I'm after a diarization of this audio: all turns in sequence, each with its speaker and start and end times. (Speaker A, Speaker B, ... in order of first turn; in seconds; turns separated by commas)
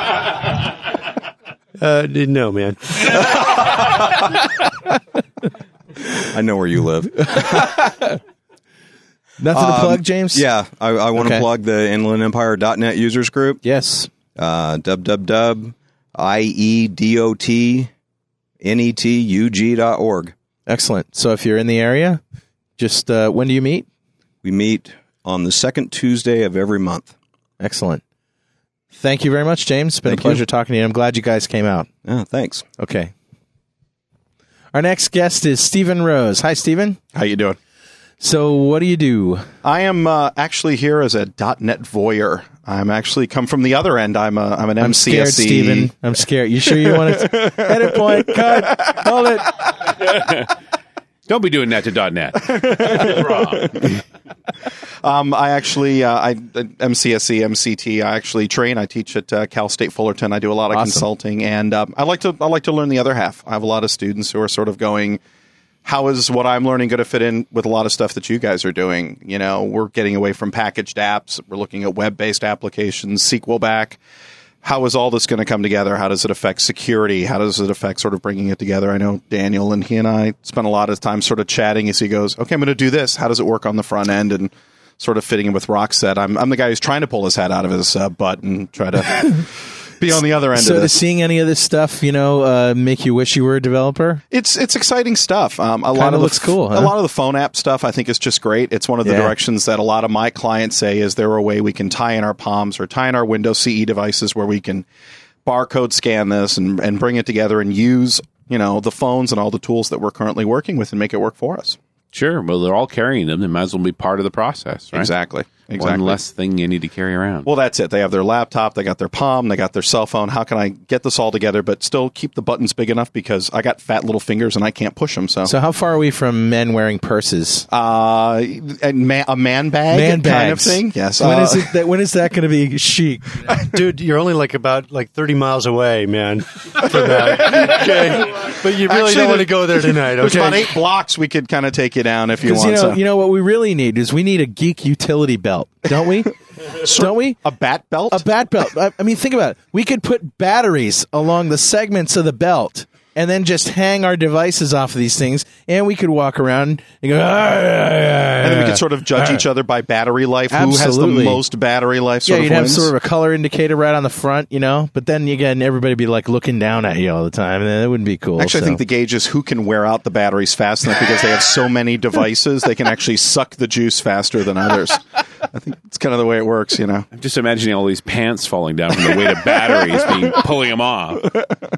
Speaker A: 1.8-3.1, Speaker B: 6.3-7.7, Speaker C: 7.2-8.1, Speaker C: 9.4-10.4, Speaker B: 9.5-13.6, Speaker C: 11.1-11.4, Speaker C: 13.6-14.1, Speaker B: 14.3-17.9, Speaker B: 18.6-20.3, Speaker C: 20.7-22.2, Speaker C: 22.8-23.9, Speaker B: 24.4-27.1, Speaker C: 27.6-28.0, Speaker C: 28.9-31.9, Speaker B: 30.0-30.4, Speaker B: 32.0-32.7, Speaker C: 32.8-33.1, Speaker C: 34.7-37.0, Speaker D: 37.1-37.6, Speaker C: 38.2-39.5, Speaker D: 39.6-45.9, Speaker C: 44.8-49.5, Speaker D: 46.9-47.7, Speaker D: 48.5-49.0, Speaker E: 50.0-50.5, Speaker E: 51.3-53.9, Speaker D: 52.4-53.7, Speaker D: 55.0-65.2, Speaker C: 60.7-61.0, Speaker D: 65.8-74.0, Speaker D: 74.6-89.4, Speaker D: 90.0-91.0, Speaker C: 90.1-94.2, Speaker D: 94.3-104.8, Speaker C: 95.9-97.0, Speaker C: 99.0-99.3, Speaker D: 105.4-111.8, Speaker E: 112.1-115.1, Speaker D: 114.9-116.2, Speaker E: 115.8-117.5, Speaker D: 117.5-125.5, Speaker C: 125.4-127.7, Speaker D: 127.7-131.8, Speaker C: 129.9-133.5, Speaker D: 133.5-133.8, Speaker A: 133.7-140.8, Speaker D: 136.9-143.0, Speaker C: 142.4-146.3, Speaker D: 146.8-148.2, Speaker C: 146.8-147.4, Speaker C: 148.1-159.4, Speaker D: 158.4-162.9, Speaker C: 160.5-161.4, Speaker C: 162.2-168.8, Speaker D: 168.4-177.1, Speaker E: 177.1-181.4